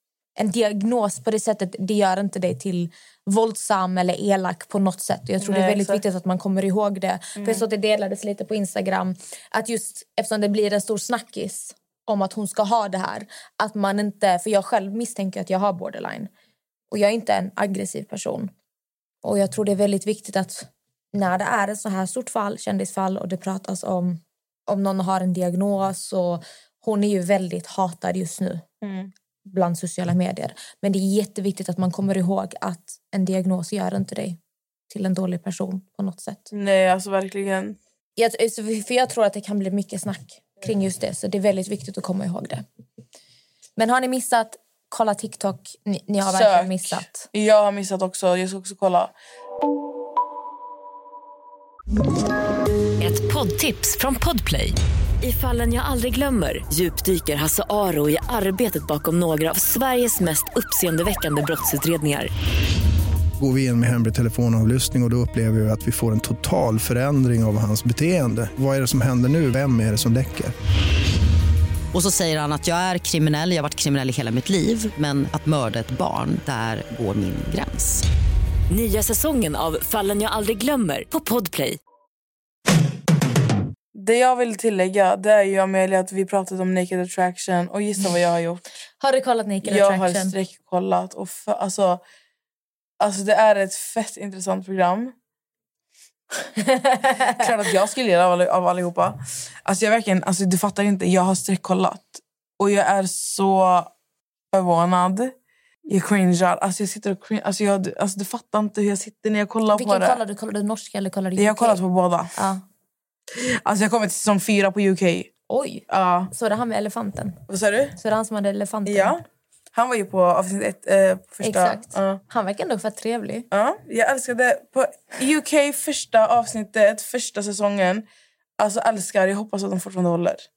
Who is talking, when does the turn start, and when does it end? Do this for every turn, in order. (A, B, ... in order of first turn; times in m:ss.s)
0:00.4-0:16.3 A
0:05.4-0:06.0 B
0:07.4-0:07.6 B
0:16.9-0:18.5 A
0:19.2-0:28.6 A
0:28.8-0:29.1 B
0:29.4-0:36.5 A
0:36.5-0:37.8 B
0:38.2-0:42.6 A
0:43.8-0:47.3 A
0:46.2-0:49.1 B
0:53.0-1:02.3 C
1:03.4-1:10.5 D
1:11.9-1:18.0 E
1:18.7-1:21.8 C
1:23.9-1:28.6 B
1:29.0-1:30.4 A
1:29.6-1:32.0 B
1:33.0-1:35.2 B
1:36.6-1:37.4 A
1:37.3-1:43.9 B
1:44.5-1:45.3 B
1:45.9-1:50.2 B
1:49.7-1:51.8 A
1:51.4-1:52.4 B
1:52.3-1:52.6 A
1:53.3-1:55.3 B
1:55.5-1:57.4 A
1:55.9-1:56.3 B
1:57.5-1:58.0 B
1:58.0-1:59.2 A
1:58.9-1:59.2 B
1:59.7-2:02.2 B
2:01.4-2:03.5 A
2:03.5-2:08.1 B
2:08.6-2:10.5 B